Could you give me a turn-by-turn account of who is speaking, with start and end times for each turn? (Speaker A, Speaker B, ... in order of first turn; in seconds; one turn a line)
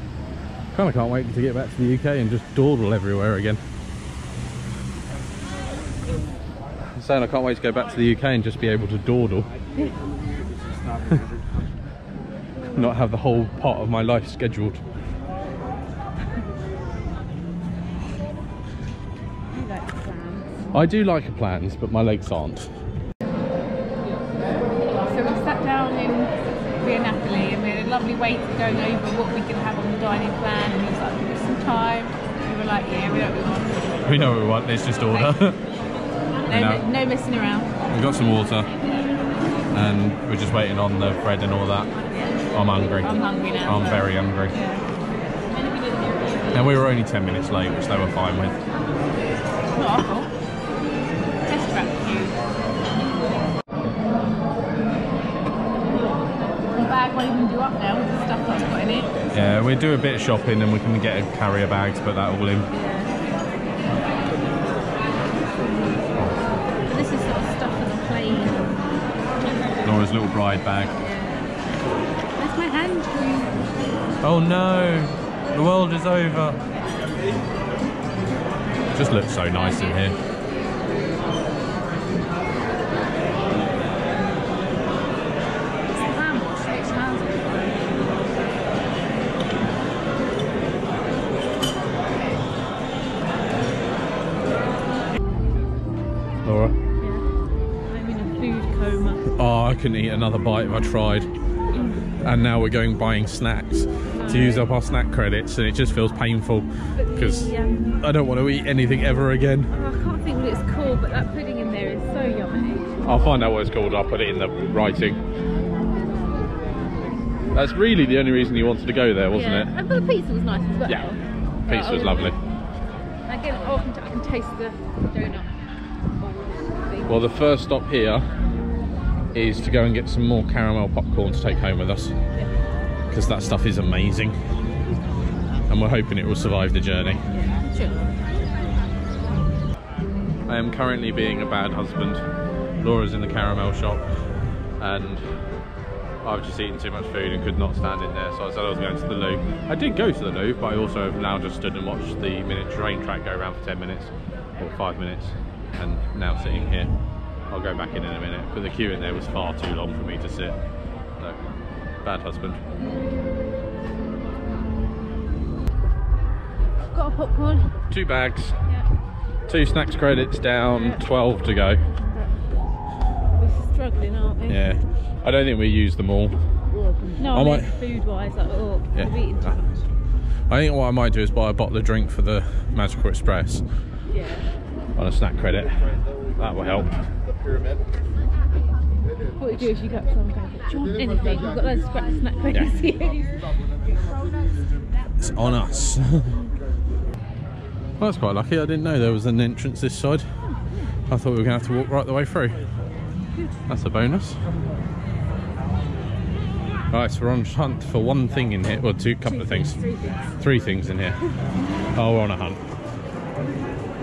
Speaker A: 0.7-3.6
Speaker A: 6.9-9.5
Speaker A: 12.7-14.8
Speaker B: 19.5-20.7
Speaker A: 20.7-22.8
Speaker B: 25.0-34.3
Speaker A: 34.0-35.6
Speaker B: 36.5-37.7
Speaker A: 36.5-36.8
Speaker A: 37.9-38.7
Speaker A: 39.7-41.9
Speaker B: 42.1-44.9
Speaker A: 42.5-44.6
Speaker A: 46.5-48.6
Speaker B: 49.7-50.3
Speaker B: 51.5-52.4
Speaker B: 56.7-59.1
Speaker A: 59.3-62.7
Speaker B: 62.7-63.1
Speaker B: 66.8-68.7
Speaker A: 69.8-71.0
Speaker B: 71.0-71.5
Speaker B: 72.4-73.7
Speaker A: 74.2-76.6
Speaker A: 79.0-80.2
Speaker B: 79.6-80.0
Speaker B: 85.9-88.0
Speaker A: 96.5-96.8
Speaker B: 97.0-97.2
Speaker B: 97.9-99.3
Speaker A: 99.3-101.3
Speaker B: 101.7-102.0
Speaker A: 102.2-109.7
Speaker B: 104.1-104.7
Speaker B: 107.0-108.0
Speaker B: 109.7-113.1
Speaker A: 113.0-115.2
Speaker A: 117.5-119.7
Speaker B: 119.3-122.4
Speaker A: 120.9-121.1
Speaker A: 121.7-122.4
Speaker B: 123.3-125.5
Speaker B: 126.2-127.4
Speaker A: 127.1-128.3
Speaker A: 129.3-132.2
Speaker A: 133.1-134.4
Speaker A: 135.7-137.2
Speaker B: 137.3-138.1
Speaker A: 140.5-142.2
Speaker A: 142.8-145.4
Speaker A: 146.2-156.9
Speaker A: 157.5-160.6
Speaker A: 162.0-162.6
Speaker B: 166.9-167.8
Speaker A: 167.9-168.7
Speaker A: 169.5-171.9
Speaker B: 170.7-171.0
Speaker B: 172.0-172.5
Speaker B: 173.4-174.7
Speaker A: 174.5-176.4
Speaker B: 176.8-179.9
Speaker A: 177.3-177.8
Speaker A: 178.9-179.6
Speaker A: 180.5-183.7
Speaker B: 184.1-184.5
Speaker A: 185.0-187.1
Speaker B: 189.4-193.6
Speaker A: 195.2-196.4
Speaker A: 198.0-200.2
Speaker B: 200.4-200.9
Speaker A: 201.1-202.6
Speaker A: 203.7-204.5
Speaker A: 206.9-209.8
Speaker B: 209.2-210.4
Speaker A: 210.3-211.2
Speaker A: 211.9-212.6